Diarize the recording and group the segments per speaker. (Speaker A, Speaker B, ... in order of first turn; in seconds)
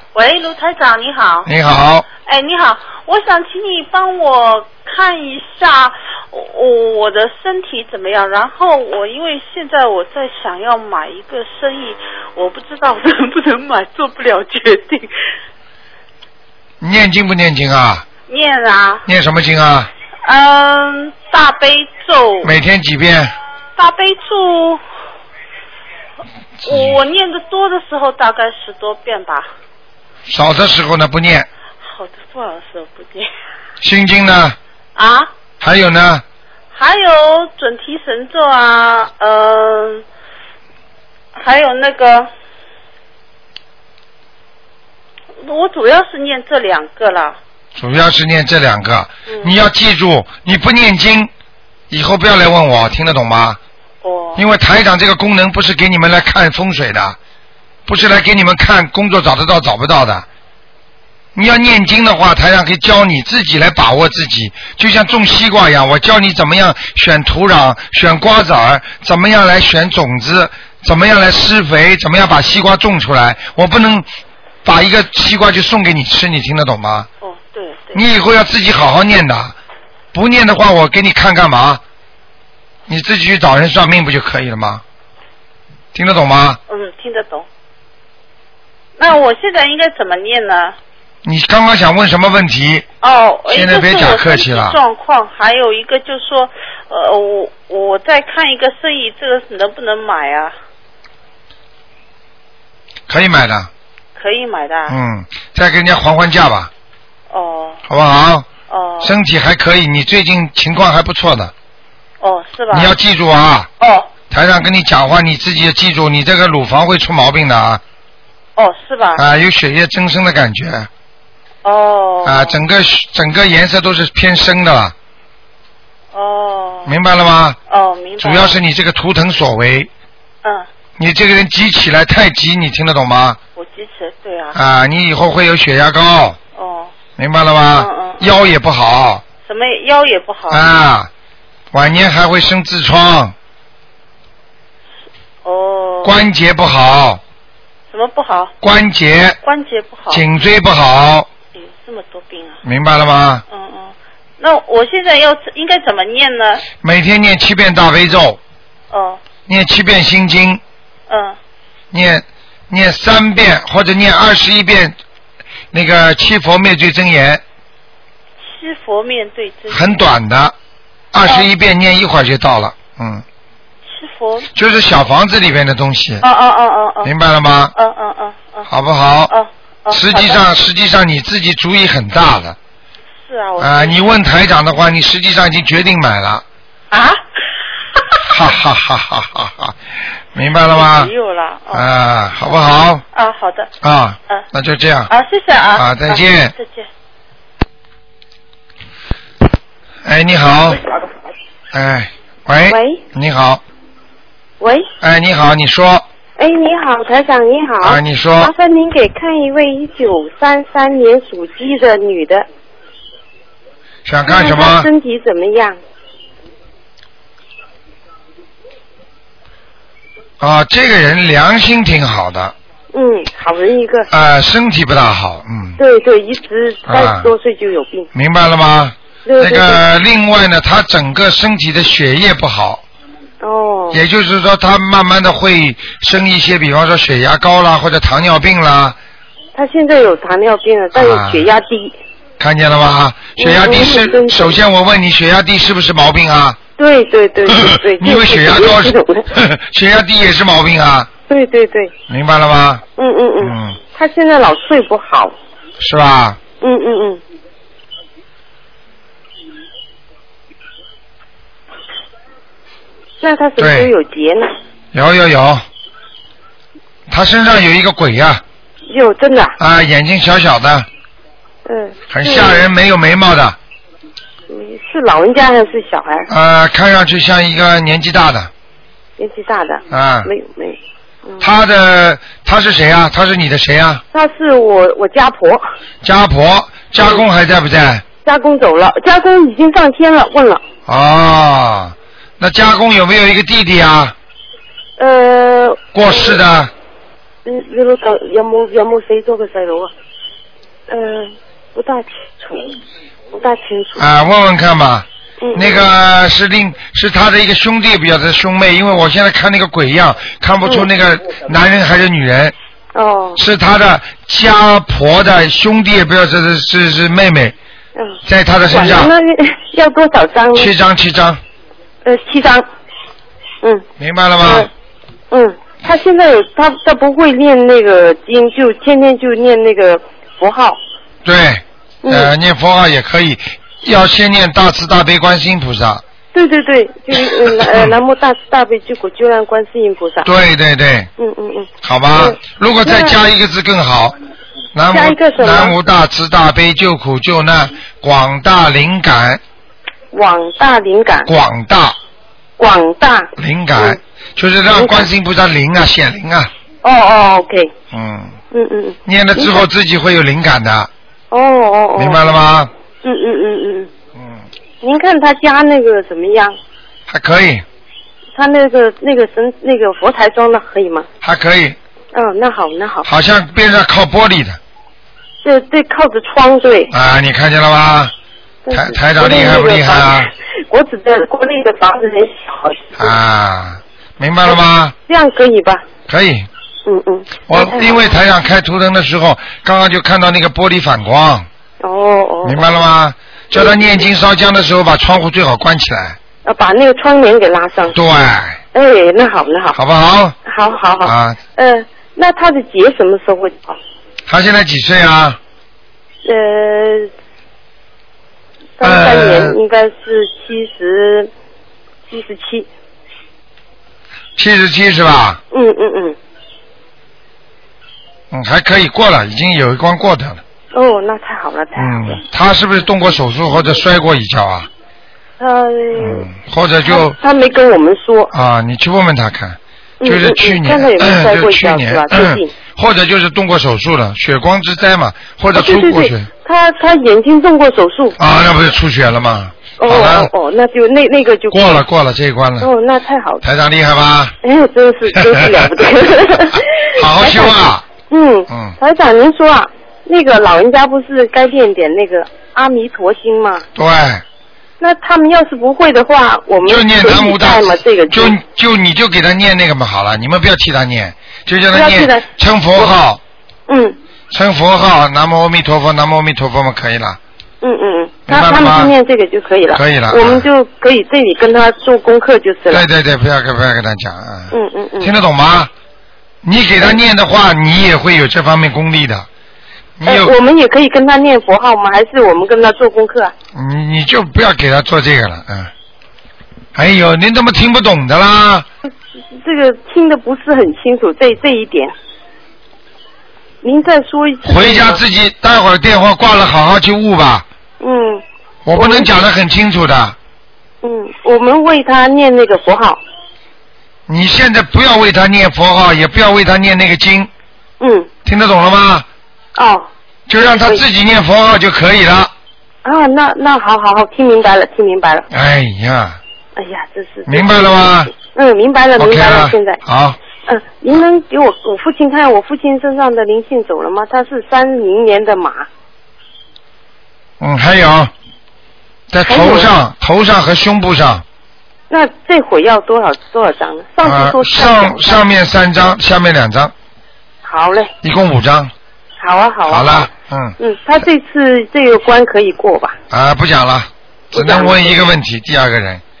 Speaker A: 0.1-1.5, 2.2-15.1, 18.3-19.0, 20.2-22.5, 23.8-24.8, 26.6-29.5, 31.8-33.3, 35.0-35.3, 36.7-40.0, 41.3-42.3, 45.4-47.4, 54.0-54.4, 77.2-78.0, 86.7-87.5, 89.0-90.8, 93.0-100.5, 104.2-104.9, 107.3-107.8, 108.7-109.1, 112.2-112.9, 113.8-114.1, 118.5-119.2, 121.6-122.6, 126.1-126.9, 127.7-128.6, 133.6-134.6, 136.6-136.9, 137.7-138.2, 139.4-140.6, 145.4-146.2, 147.9-148.5, 149.4-150.2, 151.5-152.6, 153.5-156.6, 158.9-159.2, 161.1-161.4, 168.4-170.0, 171.2-171.5, 173.8-174.5, 176.2-177.1, 177.7-178.7, 179.3-180.4, 183.2-184.0, 186.9-187.2, 187.9-188.2, 190.7-191.9, 193.1-193.7, 195.1-196.9
Speaker B: 1.4-2.0, 16.8-18.1, 19.1-19.9, 22.4-23.3, 30.3-31.5, 33.8-34.6, 35.6-36.2, 47.8-51.3, 51.9-53.6, 54.4-57.2, 57.9-60.2, 61.3-74.1, 74.6-77.1, 77.9-79.5, 80.1-81.8, 82.9-84.8, 85.9-86.6, 91.2-92.8, 93.5-94.8, 103.1-103.7, 104.9-106.7, 107.9-108.5, 109.0-111.5, 112.7-113.7, 114.3-117.8, 119.2-120.9, 122.2-124.9, 126.9-127.6, 128.2-129.9, 131.0-133.4, 134.5-136.4, 137.2-139.2, 140.5-141.1, 141.7-143.3, 146.0-147.2, 148.6-149.4, 150.1-151.3, 152.6-153.4, 156.8-158.4, 159.5-160.6, 161.9-165.0, 165.7-167.4, 169.7-170.5, 171.1-173.2, 174.5-176.2, 177.0-177.7, 178.7-179.3, 179.9-182.6, 183.6-186.4, 188.3-189.8, 190.3-191.1, 191.7-193.0, 193.8-195.1, 195.7-196.5, 200.0-200.8, 201.7-203.6, 205.0-206.0, 207.8-208.5, 214.1-214.9, 220.4-222.5, 224.1-225.8, 226.9-227.3, 228.1-232.8, 233.9-239.0, 240.9-241.5, 242.4-246.6, 247.4-251.1, 252.1-252.8, 253.4-253.8, 255.8-256.4, 263.6-263.9, 264.9-265.6, 267.1-268.4, 269.6-270.9, 272.1-273.6, 276.3-278.5, 279.9-280.3, 281.4-284.0, 286.0-288.0, 290.9-294.1, 295.9-296.7, 303.9-312.5, 313.4-317.5, 318.2-319.1, 320.5-321.4, 324.0-324.7, 331.2-336.0, 337.3-337.9, 340.2-341.1, 341.8-344.1, 344.7-349.4, 351.2-352.0, 353.4-356.5, 357.9-358.4, 359.0-360.9, 361.9-362.7, 364.1-364.4, 367.1-367.6, 371.2-371.8, 373.0-374.6, 376.9-378.1, 378.7-380.3, 383.0-384.9, 386.1-386.5, 387.5-391.5, 392.4-396.2, 397.9-398.6, 399.7-400.4, 401.0-401.4, 404.3-405.4, 408.8-409.6, 414.4-415.4, 418.3-420.4, 421.8-424.7, 426.0-427.2, 428.3-436.3, 438.2-440.3, 441.5-442.7, 443.4-444.3, 445.1-445.7, 446.4-447.8, 448.5-448.8, 453.7-454.2, 456.6-463.2, 464.3-467.2, 468.3-468.9, 469.7-470.4, 472.7-475.7, 476.4-479.3, 480.0-480.3, 483.5-485.7, 486.7-488.7, 494.4-497.4, 498.6-500.1, 504.1-507.3, 508.2-509.1, 510.3-512.3, 515.3-516.2, 517.3-518.1, 519.0-520.2, 527.4-528.1, 529.1-531.2, 534.0-536.7, 538.0-538.7, 539.7-540.5, 543.1-546.0
Speaker C: 202.7-203.0, 204.6-204.9, 206.4-212.5, 214.3-215.8, 222.9-224.1, 225.8-228.1, 229.2-229.8, 233.4-234.0, 239.5-241.9, 243.4-244.6, 246.8-249.3, 251.3-251.9, 253.0-255.3, 256.6-257.2, 263.2-264.5, 268.9-269.6, 271.6-272.7, 274.5-276.3, 279.2-281.5, 284.1-285.6, 288.2-290.6, 295.0-296.4, 297.4-299.9, 300.9-302.7, 303.3-304.1, 305.4-305.8, 312.9-313.4, 317.9-320.7, 322.0-322.7, 324.4-324.7, 325.3-330.8, 332.0-332.3, 336.3-340.3, 341.2-343.2, 344.9-345.7, 350.1-351.3, 352.6-354.0, 354.7-355.1, 356.8-357.7, 358.5-359.6, 361.3-362.3, 363.0-363.9, 364.8-366.6, 368.3-371.1, 372.1-373.1, 375.4-376.9, 378.6-383.1, 384.5-385.8, 386.9-388.1, 391.8-392.6, 396.4-398.0, 398.7-399.8, 400.4-403.8, 406.2-407.1, 408.8-411.3, 412.1-412.7, 415.5-416.2, 420.7-422.2, 425.4-426.3, 426.9-428.3, 430.0-432.5, 435.5-438.2, 439.8-441.8, 442.6-443.4, 444.4-447.6, 448.1-453.6, 454.8-458.4, 461.7-462.2, 463.7-464.0, 467.6-472.9, 474.5-475.1, 480.0-483.3, 488.8-491.9, 493.6-495.0, 497.8-498.2, 498.7-499.1, 500.8-503.0, 507.8-508.1, 509.6-509.9, 510.4-510.8, 512.8-515.2, 516.5-519.8, 520.5-525.7, 529.2-529.7, 531.9-535.2, 537.4-537.9, 539.2-543.0, 544.3-545.1